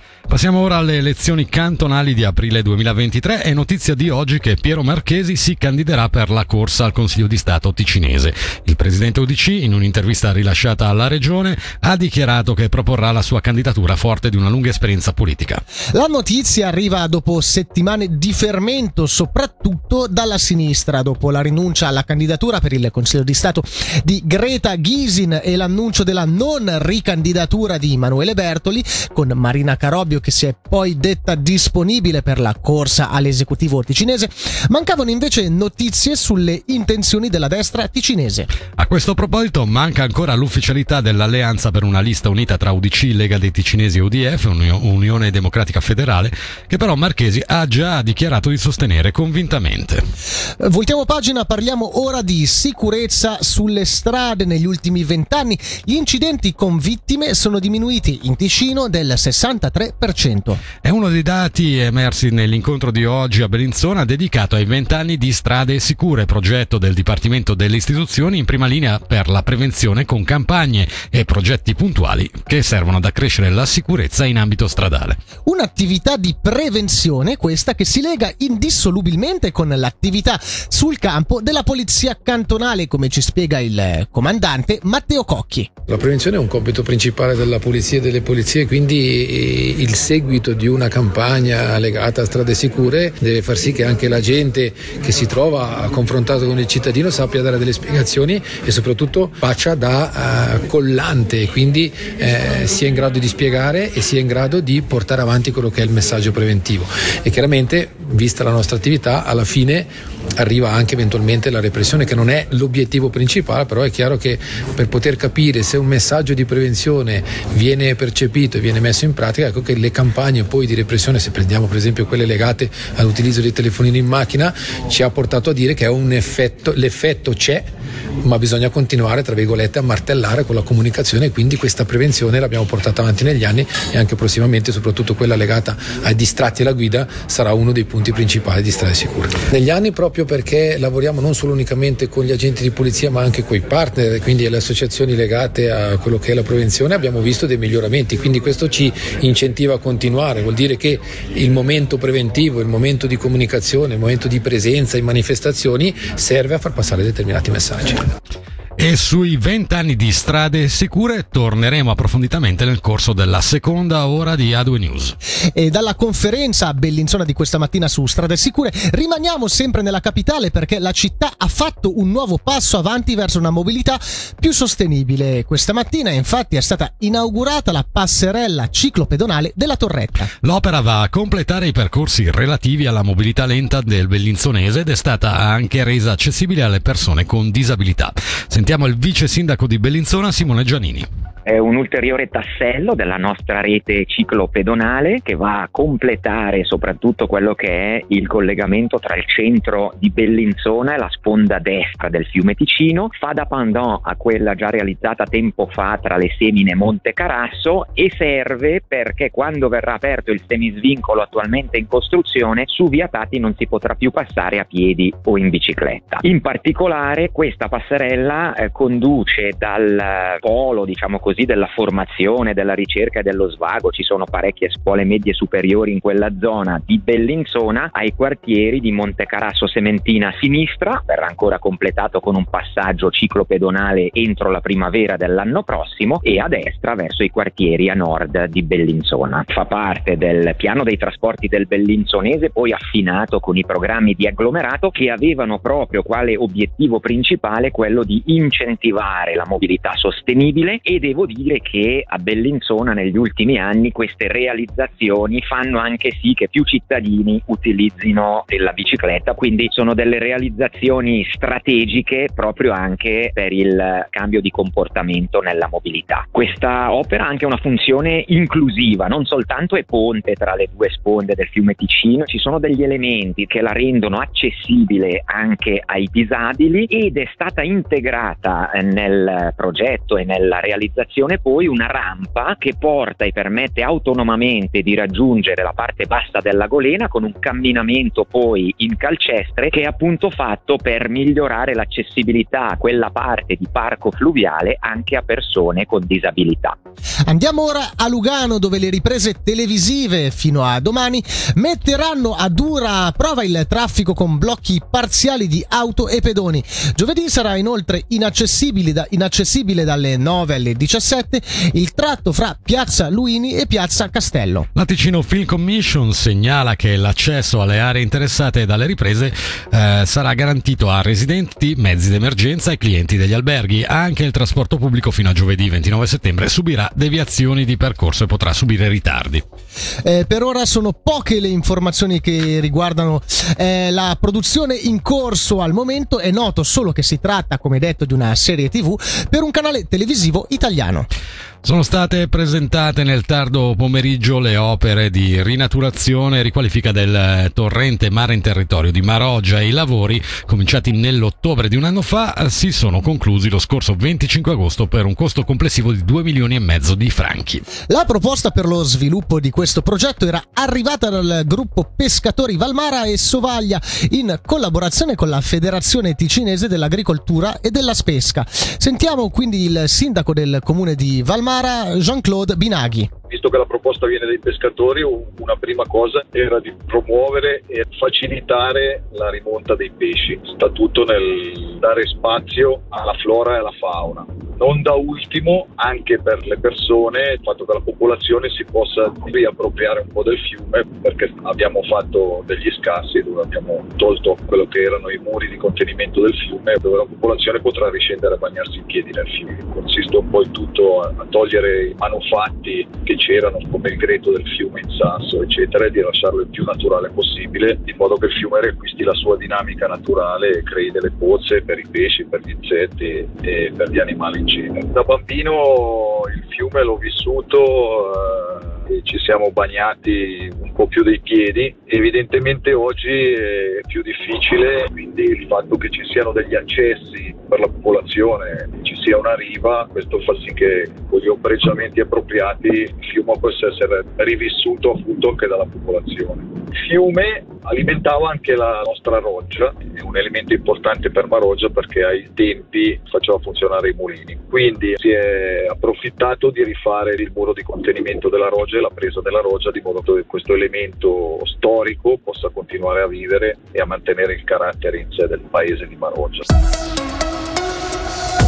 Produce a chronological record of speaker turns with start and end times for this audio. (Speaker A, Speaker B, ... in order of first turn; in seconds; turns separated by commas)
Speaker A: 0.3-15.6, Speaker B: 15.9-38.5, Speaker A: 38.8-50.0, Speaker B: 50.6-60.6, Speaker A: 60.8-75.2, Speaker B: 75.5-85.7, Speaker C: 85.9-127.7, Speaker C: 128.2-158.1, Speaker A: 158.8-165.2, Speaker B: 165.5-180.3, Speaker A: 180.4-191.1, Speaker D: 191.5-296.8, Speaker B: 297.3-314.7, Speaker A: 314.8-329.4, Speaker B: 330.0-341.1, Speaker A: 341.6-357.6, Speaker B: 357.9-373.1, Speaker E: 373.3-456.4